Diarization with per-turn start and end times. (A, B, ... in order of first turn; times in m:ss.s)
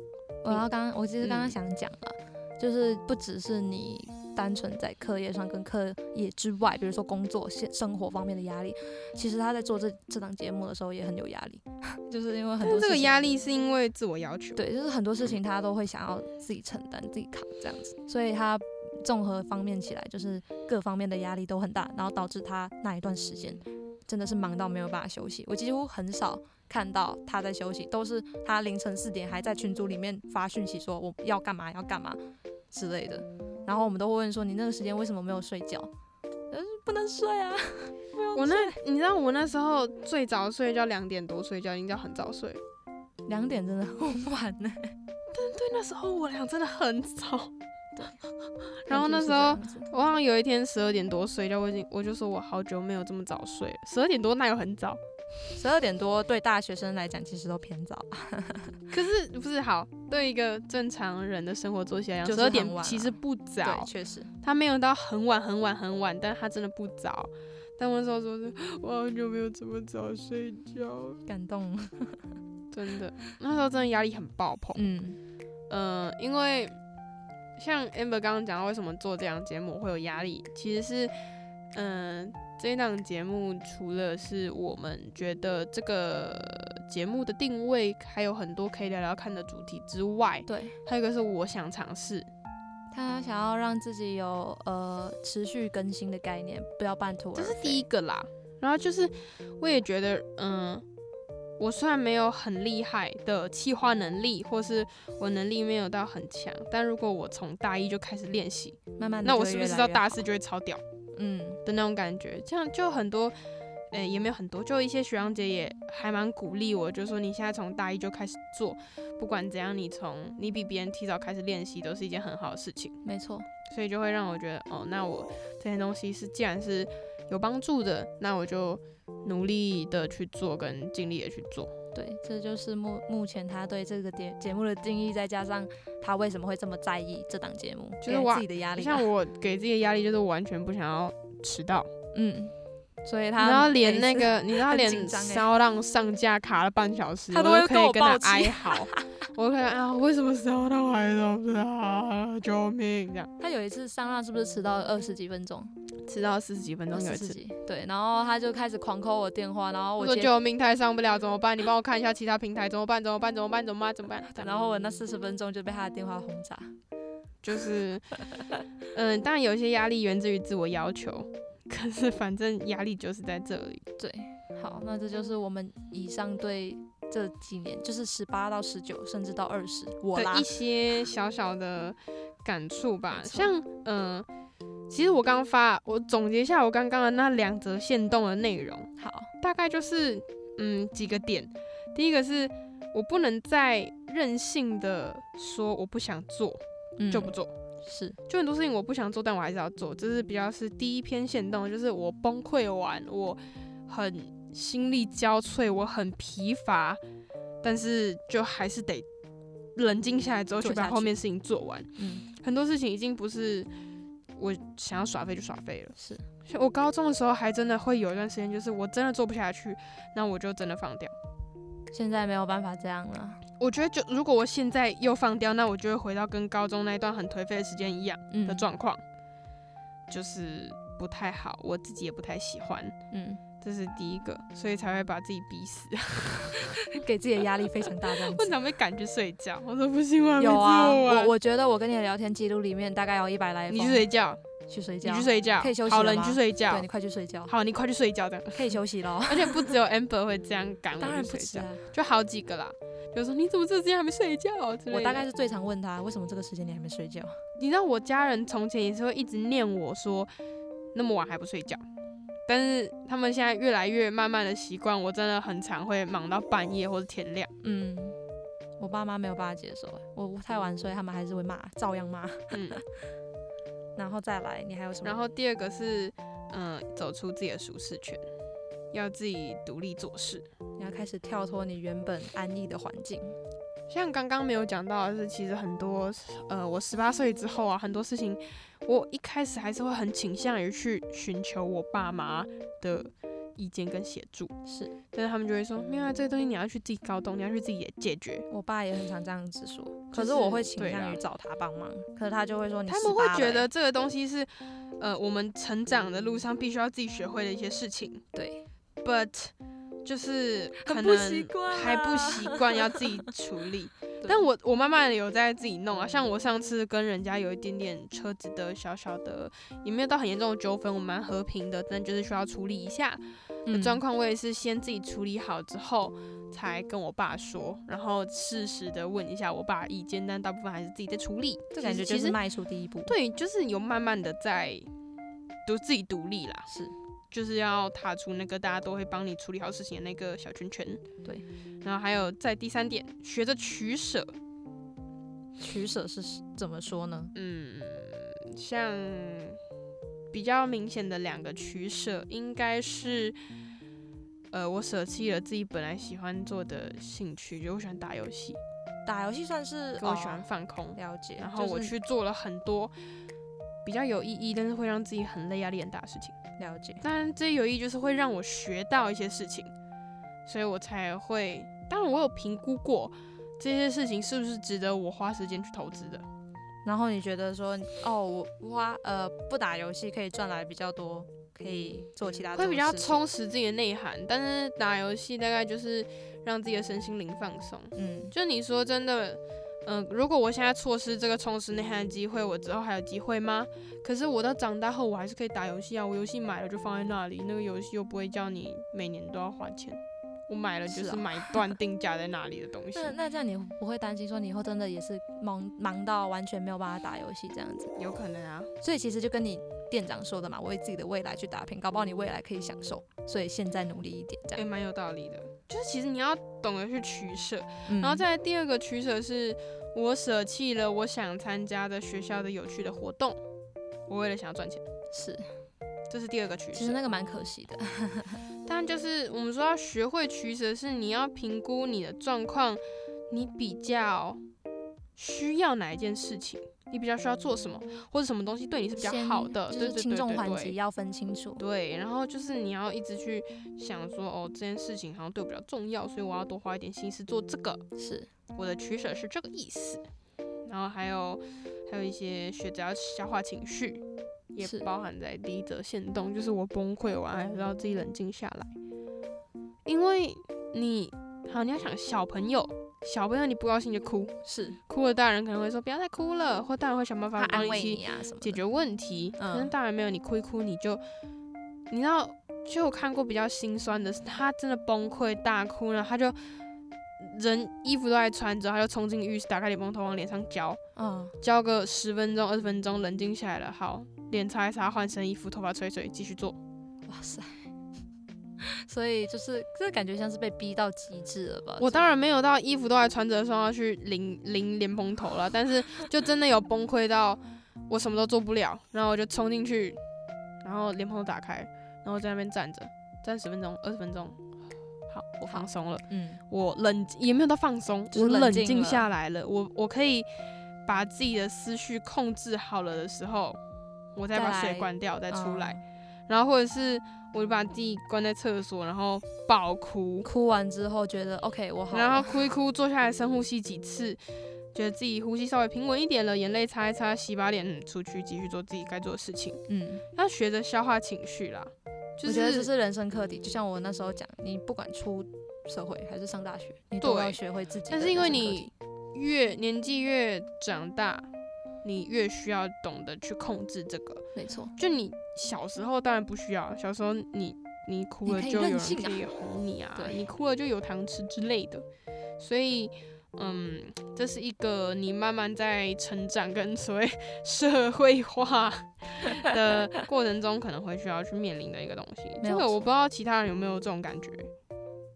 0:00.4-0:13.2 A
0:01.2-0:01.6 B
0:12.6-0:14.6 B
0:14.6-0:32.2 A
0:32.7-0:35.9 A
0:36.5-0:38.8 A
0:38.4-0:42.6 B
0:43.3-0:45.0 A
0:45.3-0:47.5 B
0:48.9-0:55.0 B
0:48.9-0:49.9 A
0:55.6-0:58.8 A
0:58.9-1:03.9 B
1:02.2-1:04.3 A
1:04.4-1:11.2 B
1:11.3-1:12.2 A
1:12.7-1:14.8 B
1:14.8-1:15.2 A
1:15.7-1:16.8 B
1:17.6-1:21.1 B
1:21.7-1:32.3 B
1:30.5-1:30.8 A
1:32.9-1:37.8 A
1:37.4-1:40.9 B
1:41.6-1:50.8 B
1:49.0-1:50.2 A
1:51.1-1:51.6 A
1:51.6-1:53.4 B
1:53.9-2:03.0 B
2:03.0-2:03.5 A
2:03.7-2:11.7 B
2:11.9-2:19.1 A
2:18.0-2:21.9 B
2:22.1-2:25.5 A
2:23.4-2:33.3 B
2:27.3-2:29.1 A
2:33.4-2:35.7 A
2:36.0-2:37.4 B
2:36.9-2:40.3 A
2:40.0-2:44.6 B
2:44.3-2:46.7 A
2:47.4-2:48.1 B
2:48.9-2:53.8 B
2:54.0-3:00.5 A
3:00.2-3:04.3 B
3:03.1-3:03.5 A
3:04.9-3:17.5 B
3:09.0-3:09.3 A
3:17.0-3:18.2 A
3:18.3-3:27.0 B
3:27.6-3:29.1 B
3:29.8-3:33.7 B
3:30.6-3:31.1 A
3:32.0-3:32.3 A
3:34.4-3:41.1 B
3:36.0-3:36.2 A
3:41.9-3:43.4 A
3:43.6-3:49.0 B
3:48.3-3:48.7 A
3:50.1-3:53.0 B
3:53.1-3:53.4 A
3:53.6-3:56.8 B
3:56.8-3:58.6 A
3:58.0-4:01.3 B
4:00.4-4:04.1 A
4:03.7-4:04.4 B
4:04.7-4:07.5 A
4:05.0-4:06.9 B
4:07.5-4:15.3 B
4:08.5-4:09.7 A
4:11.0-4:11.9 A
4:14.9-4:17.4 A
4:17.6-4:20.3 B
4:20.9-4:21.8 B
4:22.5-4:27.5 B
4:27.6-4:28.2 A
4:28.8-4:32.8 A
4:32.5-4:32.8 B
4:34.0-4:35.2 A
4:35.0-4:38.2 B
4:38.9-4:40.5 B
4:40.8-4:43.4 A
4:43.9-4:54.5 B
4:54.6-4:54.9 A
4:55.1-4:58.5 B
4:58.5-5:03.7 A
5:00.1-5:01.2 B
5:02.9-5:08.2 B
5:08.3-5:08.6 A
5:09.0-5:09.5 B
5:10.0-5:32.4 B
5:10.8-5:13.3 A
5:23.7-5:24.0 A
5:31.7-5:33.1 A
5:33.1-5:34.9 B
5:35.7-5:36.7 B
5:36.7-5:36.9 A
5:37.3-5:41.0 B
5:41.8-5:44.4 B
5:45.6-5:47.3 A
5:47.4-5:49.6 B
5:50.3-5:53.4 B
5:54.5-5:58.6 B
5:59.1-6:00.4 A
6:00.0-6:03.0 B
6:01.0-6:01.9 A
6:03.8-6:06.4 B
6:06.6-6:07.0 A
6:07.0-6:09.7 B
6:10.5-6:16.3 B
6:16.8-6:23.2 A
6:22.6-6:43.2 B
6:28.0-6:28.3 A
6:40.9-6:41.7 A
6:43.0-6:47.9 A
6:48.0-6:48.7 B
6:48.8-6:54.6 A
6:54.6-7:03.4 B
6:57.9-6:58.3 A
7:04.1-7:04.8 B
7:05.1-7:05.5 A
7:06.1-7:07.0 B
7:06.7-7:08.5 A
7:08.7-7:14.4 B
7:15.2-7:20.8 B
7:19.0-7:21.6 A
7:21.6-7:27.8 B
7:28.0-7:28.3 A
7:28.6-7:30.1 B
7:30.7-7:34.0 B
7:34.5-7:38.7 B
7:34.6-7:34.9 A
7:39.9-7:44.4 B
7:44.4-7:44.8 A
7:44.9-7:51.0 B
7:47.4-7:48.6 A
7:49.4-7:49.7 A
7:51.9-7:56.4 B
7:57.2-8:00.8 B
8:01.0-8:01.4 A
8:01.4-8:06.6 B
8:07.1-8:07.7 A
8:08.6-8:12.1 A
8:11.8-8:20.0 B
8:20.6-8:24.4 B
8:25.1-8:30.3 B
8:25.5-8:26.4 A
8:28.1-8:29.1 A
8:30.8-8:33.6 B
8:34.2-8:40.3 B
8:34.3-8:35.8 A
8:40.2-8:42.4 A
8:41.9-8:44.2 B
8:44.7-8:49.6 B
8:49.7-8:50.0 A
8:50.1-8:52.7 B
8:52.2-8:58.7 A
8:57.0-9:01.3 B
9:01.8-9:04.3 B
9:04.4-9:04.8 A
9:04.8-9:11.9 B
9:08.3-9:09.2 A
9:10.0-9:10.2 A
9:12.4-9:24.5 B
9:22.4-9:22.8 A